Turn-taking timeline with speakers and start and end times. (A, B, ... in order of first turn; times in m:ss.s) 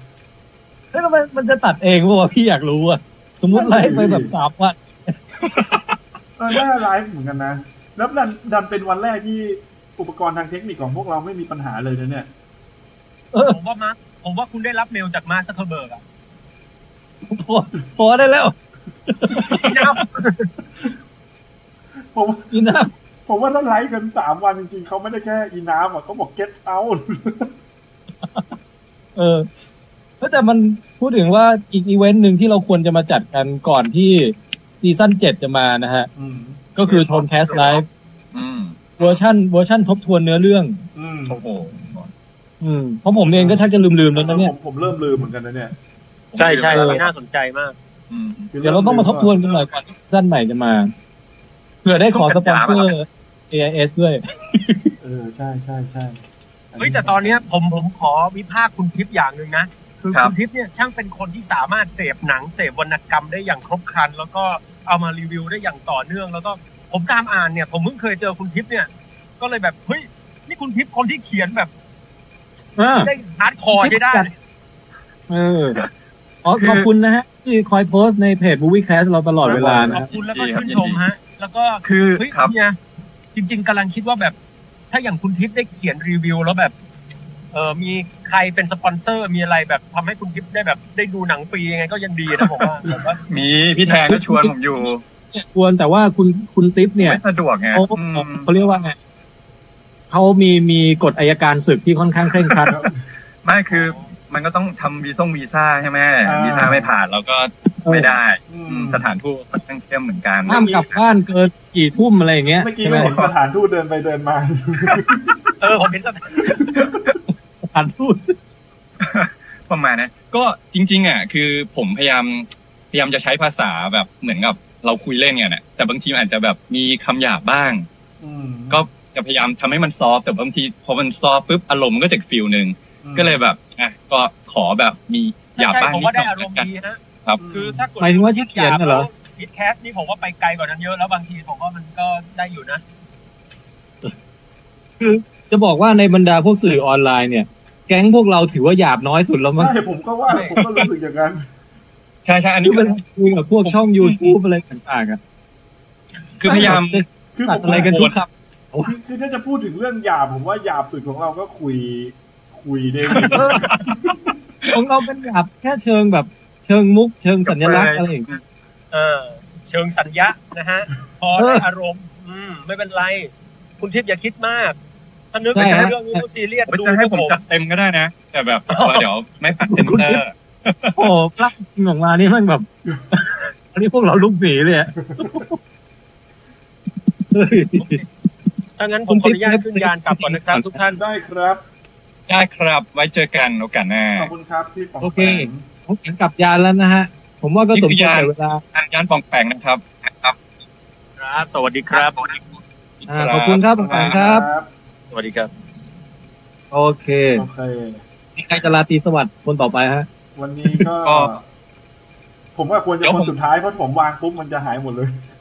0:00.9-0:05.2 A
0:03.5-0:04.3 B
0:05.4-0:05.8 C
0:06.4-0:12.3 B
0:13.3-0:13.6 A
0:13.4-0:16.0 D
0:17.3-0:18.6 A
0:19.1-0:20.0 A
0:19.5-0:20.5 D
0:22.1-0:22.5 B
0:22.5-0:22.9 A
0:23.3-0:27.5 B
0:28.2-0:28.5 A
0:29.2-0:29.5 A
0:30.2-0:36.1 A
0:36.2-0:36.7 B
0:36.8-0:37.9 A
0:38.3-0:39.0 C
0:39.0-0:40.8 A
0:41.0-0:41.4 B
0:41.3-0:42.1 C
0:42.6-0:44.5 A
0:43.2-0:45.7 B
0:46.3-0:47.0 C
0:46.4-0:47.8 D
0:46.7-0:47.0 A
0:48.1-0:48.5 C
0:48.5-0:49.4 B
0:48.6-0:50.9 A
0:51.8-0:54.9 A
0:52.1-0:52.9 C
0:55.0-0:56.2 B
0:56.7-0:57.4 B
0:56.8-1:11.7 D
1:12.8-1:13.1 A
1:13.0-1:14.3 D
1:13.8-1:14.3 A
1:15.3-1:15.8 A
1:16.4-1:20.0 A
1:16.6-1:16.9 C
1:19.4-1:20.0 B
1:19.9-1:22.8 D
1:20.1-1:21.0 C
1:21.8-1:22.5 C
1:23.3-1:24.4 D
1:24.9-1:26.7 D
1:27.5-1:33.2 D
1:33.3-1:35.0 C
1:33.8-1:37.2 A
1:37.0-1:38.5 C
1:37.7-1:39.0 A
1:40.1-1:42.7 A
1:42.7-1:43.0 B
1:43.4-1:50.8 C
1:43.7-1:44.0 D
1:46.2-1:46.9 B
1:47.9-1:48.1 A
1:48.5-1:49.1 B
1:50.5-1:53.1 A
1:50.5-1:50.8 D
1:52.5-1:55.5 B
1:55.6-1:56.7 D
1:56.4-1:57.2 B
1:57.7-1:58.4 A
1:59.0-2:07.9 C
2:08.2-2:08.8 B
2:08.7-2:16.7 C
2:13.0-2:13.4 B
2:15.5-2:22.8 D
2:17.4-2:17.9 B
2:18.0-2:19.1 A
2:25.0-2:29.7 A
2:29.6-2:31.4 B
2:30.3-2:30.6 D
2:32.2-2:33.0 C
2:32.6-2:35.2 A
2:33.6-2:34.3 C
2:36.4-2:37.0 C
2:36.4-2:38.9 A
2:37.3-2:38.0 B
2:37.6-2:38.2 C
2:38.8-2:44.2 B
2:43.1-2:43.9 C
2:43.3-2:43.7 A
2:44.7-2:48.3 A
2:47.5-2:48.4 C
2:48.9-2:54.8 D
2:51.4-2:51.6 A
2:55.3-2:57.4 D
2:55.5-2:56.2 A
2:56.7-3:01.1 C
2:58.7-2:59.1 D
2:59.6-3:00.2 A
3:01.0-3:05.6 A
3:07.3-3:08.0 A
3:08.8-3:11.0 D
3:09.1-3:10.8 A
3:11.0-3:11.6 B
3:12.3-3:14.3 C
3:14.2-3:15.7 B
3:15.0-3:18.6 A
3:17.7-3:20.4 C
3:21.2-3:22.6 D
3:23.1-3:24.5 A
3:23.1-3:24.2 C
3:23.8-3:24.7 B
3:25.1-3:25.5 D
3:26.7-3:27.5 C
3:27.3-3:28.0 B
3:28.4-3:30.1 A
3:30.4-3:31.4 B
3:31.0-3:31.3 C
3:32.6-3:35.1 B
3:33.0-3:33.3 C